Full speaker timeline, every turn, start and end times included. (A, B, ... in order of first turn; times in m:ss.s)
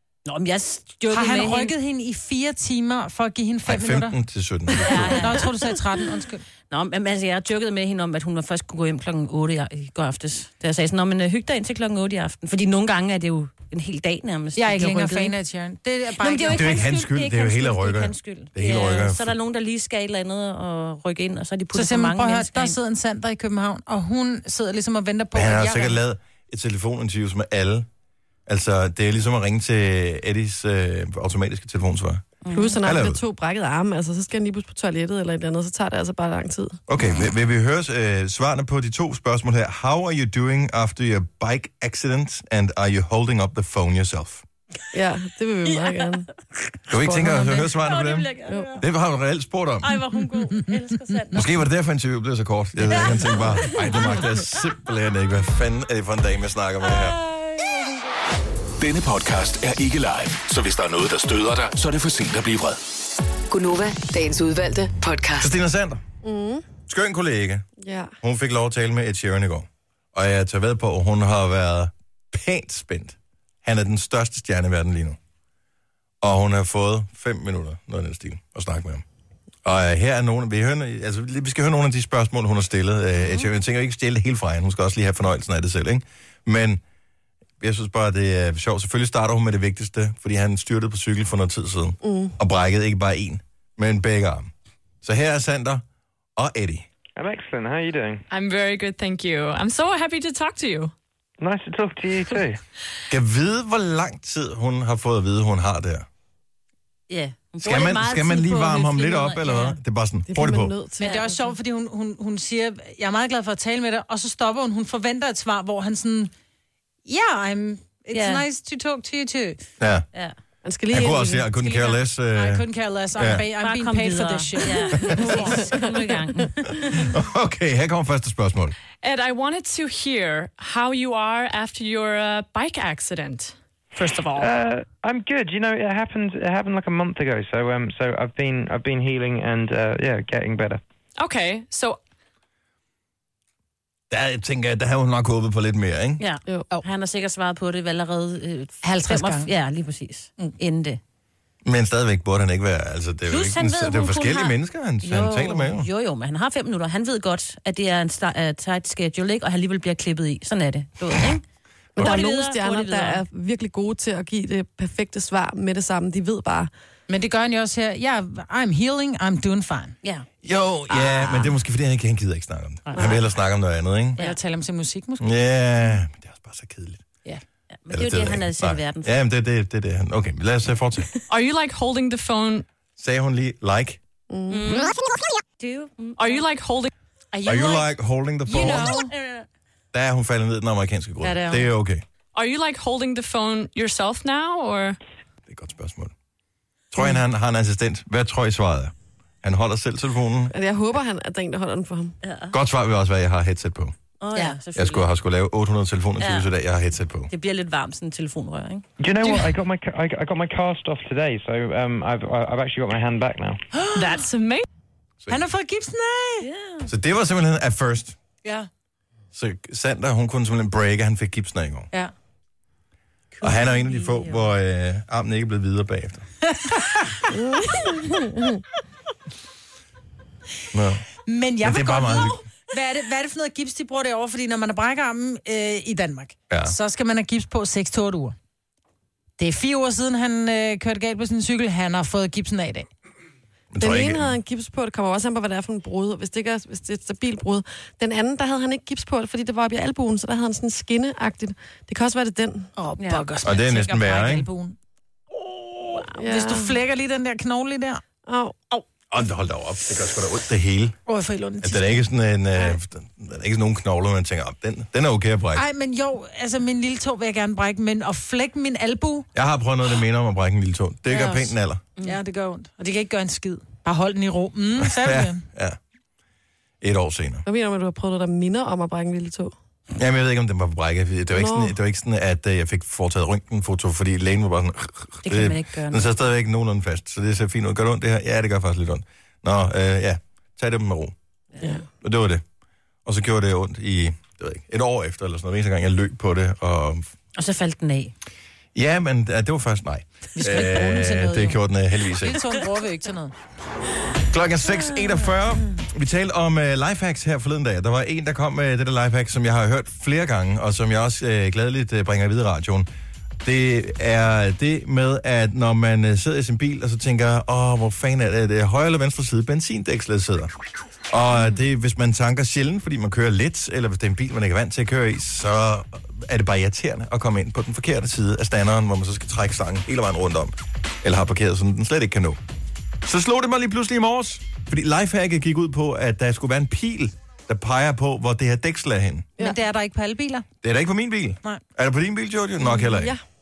0:00.3-0:01.7 A
0:01.1-0:04.2 B
0:03.7-0:05.2 C
0:04.8-0:05.5 A
0:05.2-0:06.4 B
0:06.7-0:15.4 A
0:14.6-0:16.8 B
0:16.2-0:22.8 A
0:16.5-0:19.3 C
0:21.7-0:26.0 B
0:25.3-0:27.9 C
0:28.5-0:32.3 C
0:32.4-0:32.8 A
0:32.5-0:36.8 D
0:32.8-0:33.2 C
0:36.9-0:44.4 C
0:44.9-0:46.3 D
0:45.7-0:46.2 A
0:46.9-0:50.0 C
0:47.1-0:47.7 B
0:47.6-0:48.8 A
0:48.5-0:48.8 D
0:49.8-0:51.5 A
0:51.3-0:57.2 C
0:52.9-0:54.2 A
0:56.8-0:58.0 A
0:58.8-1:02.8 E
1:03.5-1:05.5 F
1:05.4-1:06.0 C
1:06.2-1:06.7 D
1:06.9-1:07.7 C
1:07.8-1:08.1 D
1:08.2-1:15.2 C
1:16.2-1:19.0 C
1:19.6-1:26.8 C
1:27.6-1:34.5 C
1:32.0-1:32.4 D
1:35.0-1:35.8 C
1:36.4-1:36.9 C
1:37.2-1:38.2 G
1:38.3-1:40.9 H
1:41.4-1:42.6 G
1:43.1-1:46.1 C
1:47.1-1:49.8 A
1:47.6-1:50.8 C
1:50.3-1:51.1 D
1:51.0-1:51.4 A
1:51.0-1:56.3 B
1:57.1-1:59.6 B
1:58.1-1:58.4 A
1:59.8-2:00.1 C
2:00.6-2:01.5 D
2:00.9-2:03.5 C
2:01.6-2:05.8 B
2:03.6-2:07.1 A
2:05.1-2:05.9 D
2:06.9-2:08.8 C
2:09.0-2:13.6 H
2:14.0-2:14.4 B
2:14.4-2:20.8 G
2:21.2-2:22.0 H
2:24.1-2:26.2 C
2:26.2-2:31.0 A
2:28.8-2:29.5 B
2:31.6-2:35.9 C
2:33.3-2:41.4 A
2:42.0-2:46.7 D
2:42.0-2:43.2 A
2:47.1-2:50.0 B
2:50.4-2:54.2 C
2:50.9-2:51.6 A
2:54.2-2:55.3 B
2:55.2-2:57.0 C
2:57.7-2:59.1 A
2:57.9-3:01.1 C
3:01.3-3:02.7 H
3:03.0-3:04.0 C
3:04.3-3:04.9 D
3:04.5-3:05.0 A
3:05.6-3:06.5 A
3:06.2-3:06.9 H
3:07.3-3:07.9 B
3:07.4-3:09.0 C
3:08.5-3:09.1 B
3:08.5-3:09.5 A
3:09.9-3:12.0 C
3:11.2-3:11.6 A
3:12.3-3:15.0 H
3:15.5-3:16.1 C
3:16.9-3:20.5 C
3:20.5-3:22.2 D
3:22.2-3:22.6 A
3:22.5-3:24.0 C
3:24.2-3:25.1 A
3:24.8-3:27.3 C
3:26.2-3:26.5 A
3:27.3-3:28.8 A
3:29.0-3:33.6 G
3:29.2-3:29.5 B
3:33.7-3:34.2 B
3:33.9-3:34.6 H
3:35.3-3:36.5 B
3:36.4-3:36.9 A
3:36.9-3:38.2 C
3:38.4-3:38.7 B
3:39.3-3:41.9 C
3:43.4-3:44.4 A
3:43.4-3:46.3 C
3:46.5-3:47.3 B
3:47.3-3:48.6 D
3:50.7-3:51.1 C
3:51.3-3:58.4 B
3:51.6-3:52.4 C
3:56.5-3:56.8 C
3:59.4-4:02.9 B
4:03.7-4:04.4 C
4:03.8-4:12.7 D
4:12.8-4:14.8 B
4:13.0-4:13.3 A
4:13.4-4:14.5 C
4:15.3-4:16.0 C
4:16.2-4:16.8 D
4:16.2-4:18.0 B
4:18.3-4:18.8 D
4:19.1-4:21.0 C
4:21.1-4:22.1 B
4:21.6-4:25.6 C
4:25.6-4:29.3 B
4:29.4-4:31.8 C
4:31.1-4:35.4 B
4:34.8-4:35.8 C
4:36.8-4:37.4 C
4:37.4-4:39.5 D
4:40.0-4:51.2 C
4:41.3-4:41.7 D
4:45.2-4:46.1 A
4:52.0-4:52.4 C
4:53.1-4:57.1 C
4:57.4-4:58.1 A
4:58.8-5:02.4 C
5:00.4-5:01.6 B
5:02.1-5:03.3 B
5:04.3-5:12.9 C
5:04.8-5:05.4 A
5:13.4-5:20.5 C
5:21.1-5:32.4 C
5:33.0-5:39.3 C
5:39.4-5:40.5 B
5:40.6-5:43.2 C
5:42.6-5:43.2 D